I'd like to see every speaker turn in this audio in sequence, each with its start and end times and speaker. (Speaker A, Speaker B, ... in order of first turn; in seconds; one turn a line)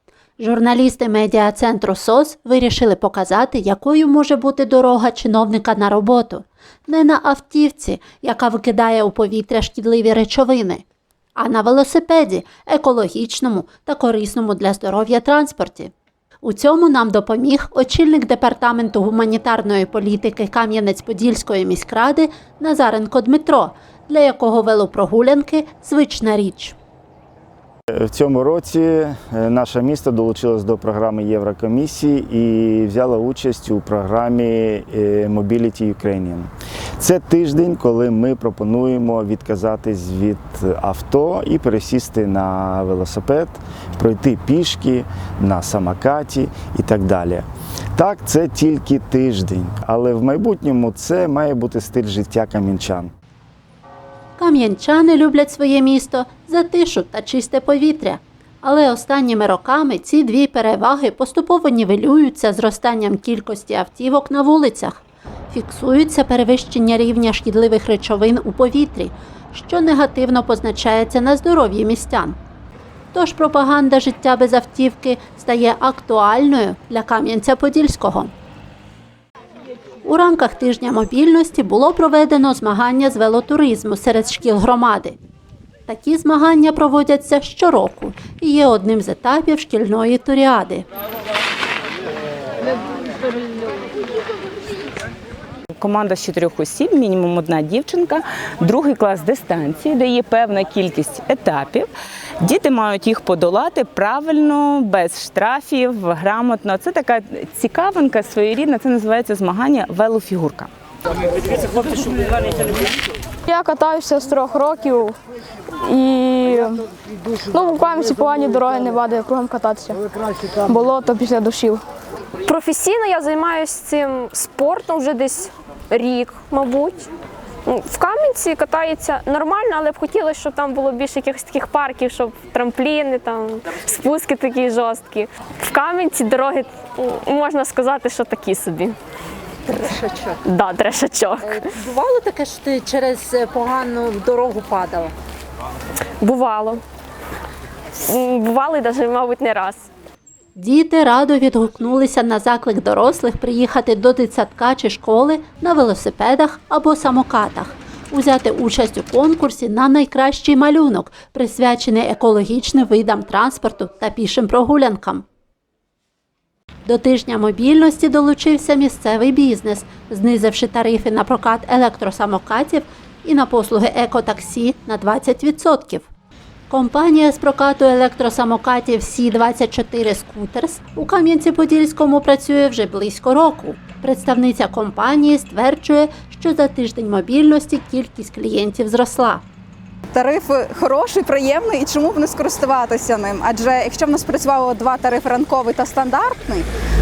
Speaker A: 0.4-10.8
Speaker A: 11.4-15.9
Speaker A: 16.4-26.8
Speaker B: 27.9-53.1
Speaker A: 54.4-65.0
Speaker A: 65.5-72.4
Speaker A: 73.1-78.3
Speaker A: 80.0-85.2
Speaker A: 85.9-90.8
Speaker C: 95.8-101.9
Speaker C: 102.4-110.7
Speaker D: 113.5-115.2
Speaker D: 115.8-116.8
Speaker D: 117.5-120.0
Speaker D: 120.6-121.8
Speaker E: 122.5-127.1
Speaker E: 127.7-139.0
Speaker E: 140.4-141.7
Speaker F: 142.0-145.1
Speaker E: 146.2-146.8
Speaker E: 148.1-149.9
Speaker A: 150.6-165.2
Speaker A: 166.9-176.1
Speaker A: 176.7-189.4
Speaker G: 190.1-196.7